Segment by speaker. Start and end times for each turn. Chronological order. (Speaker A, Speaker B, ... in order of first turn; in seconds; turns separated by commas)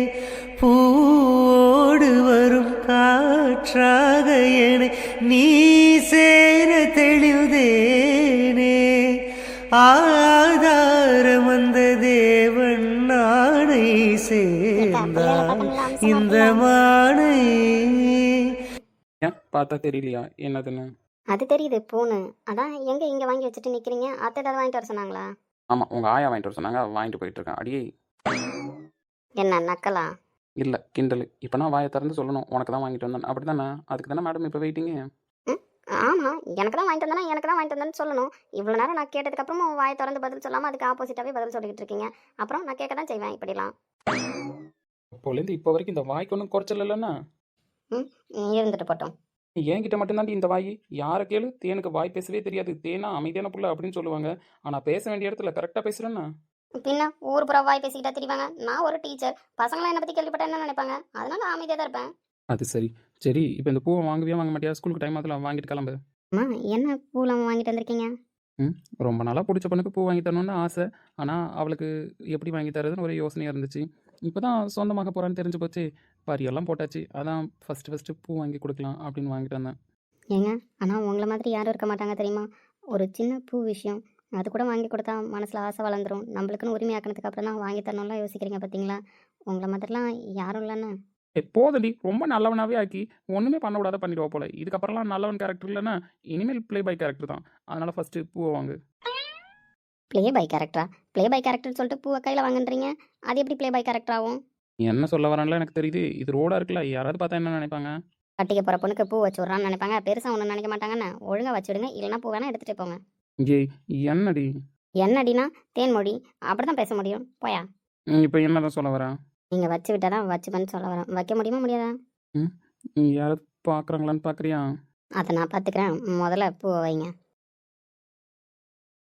Speaker A: 0.6-8.8, Speaker A: 9.8-18.5, Speaker B: 14.8-16.6, Speaker C: 19.2-20.9, Speaker B: 21.3-25.3, Speaker C: 25.7-27.8, Speaker B: 29.4-30.1, Speaker C: 30.6-35.0, Speaker B: 35.5-43.7, Speaker C: 45.2-47.1, Speaker B: 47.9-49.1, Speaker C: 49.7-56.3, Speaker B: 56.8-62.1, Speaker C: 62.5-66.0, Speaker B: 66.3-68.1, Speaker C: 68.6-79.8, Speaker B: 80.3-89.0, Speaker B: 89.5-90.9, Speaker C: 91.4-98.8, Speaker B: 100.1-104.4, Speaker C: 104.8-107.9, Speaker B: 108.4-113.0, Speaker C: 113.4-114.5, Speaker B: 115.0-117.7, Speaker C: 118.1-119.2, Speaker B: 119.5-121.9, Speaker C: 122.4-124.6, Speaker B: 125.2-127.1